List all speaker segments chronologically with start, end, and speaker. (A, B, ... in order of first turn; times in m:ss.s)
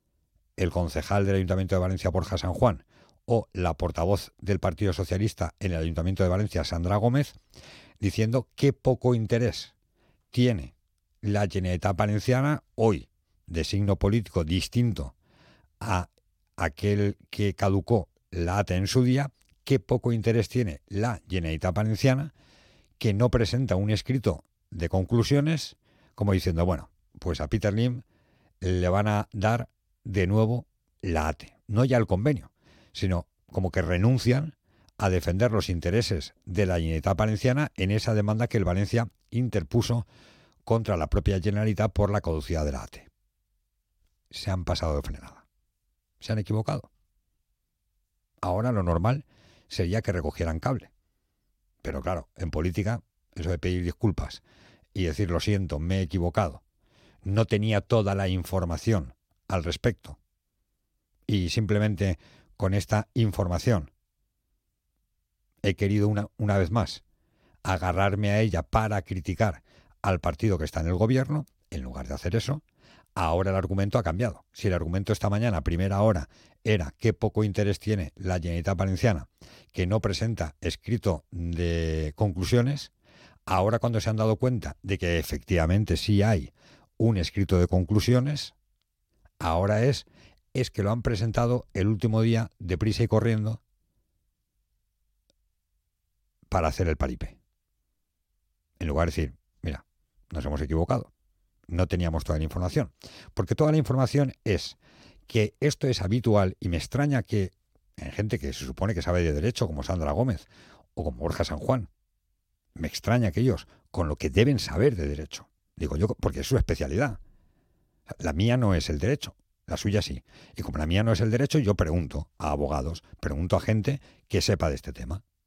0:00.6-0:07.4 A
0:08.0-0:09.7 A
0:10.3-0:10.7 A
0:11.2-0:15.1 A
0:15.8-0:22.3 A
0:23.0-0:28.0 A
0:28.6-0:40.0 A
0:40.6-0:43.1 A
0:44.3-0:45.4 A
0:46.2-0:46.9 A
0:48.4-0:50.9 A
0:51.8-0:54.4 A
0:54.9-0:56.6 A
0:57.2-1:00.2 A
1:01.3-1:03.9 A
1:05.6-1:07.0 A
1:07.6-1:12.6 A
1:13.2-1:22.9 A
1:23.5-1:28.5 A
1:29.4-1:33.6 A
1:36.5-1:37.4 A
1:38.8-1:41.1 A
1:41.7-1:44.8 A
1:45.3-1:51.9 A
1:52.8-1:57.2 A
1:58.2-2:05.2 A